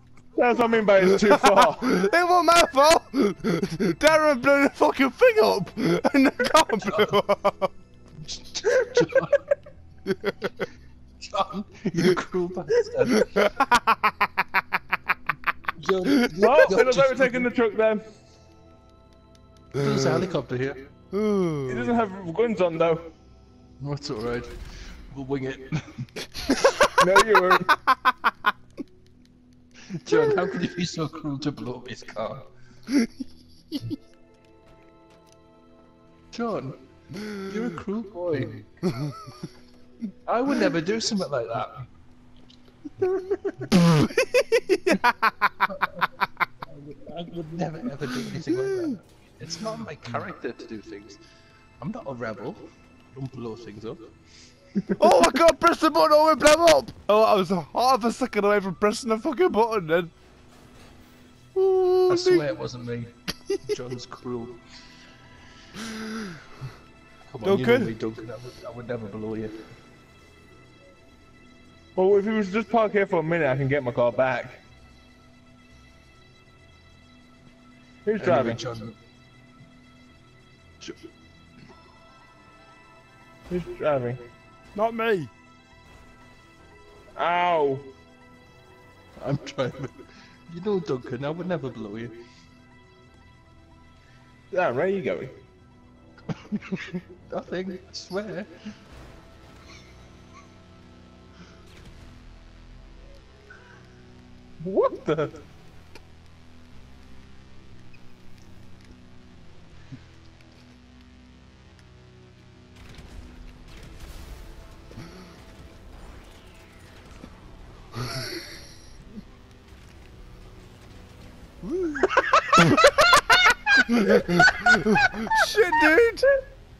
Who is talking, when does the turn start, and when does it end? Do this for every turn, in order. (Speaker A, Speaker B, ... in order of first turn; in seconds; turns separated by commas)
Speaker A: 0.3-2.0, Speaker B: 1.2-7.7, Speaker C: 6.5-7.2, Speaker C: 8.2-9.3, Speaker B: 10.1-10.5, Speaker C: 11.2-13.4, Speaker B: 13.4-13.8, Speaker C: 15.8-17.5, Speaker A: 16.3-18.1, Speaker C: 19.7-20.8, Speaker B: 19.8-20.2, Speaker B: 21.1-21.9, Speaker A: 21.7-23.0, Speaker C: 23.8-24.5, Speaker C: 25.1-26.1, Speaker A: 27.0-27.7, Speaker C: 29.9-32.4, Speaker C: 36.3-38.7, Speaker B: 38.9-39.2, Speaker C: 40.3-41.9, Speaker C: 43.0-43.9, Speaker B: 44.5-45.7, Speaker C: 45.7-46.0, Speaker C: 46.7-51.2, Speaker C: 51.8-54.0, Speaker B: 55.0-60.1, Speaker B: 61.5-62.5, Speaker C: 62.1-64.6, Speaker C: 67.2-69.6, Speaker B: 67.4-67.9, Speaker A: 72.0-74.6, Speaker A: 78.0-78.6, Speaker C: 78.2-78.9, Speaker A: 83.5-84.2, Speaker B: 84.7-85.3, Speaker A: 87.2-87.9, Speaker C: 89.2-92.1, Speaker A: 94.5-95.3, Speaker C: 96.3-98.5, Speaker A: 104.6-105.3, Speaker B: 121.6-122.6, Speaker A: 122.3-124.7, Speaker B: 123.8-126.2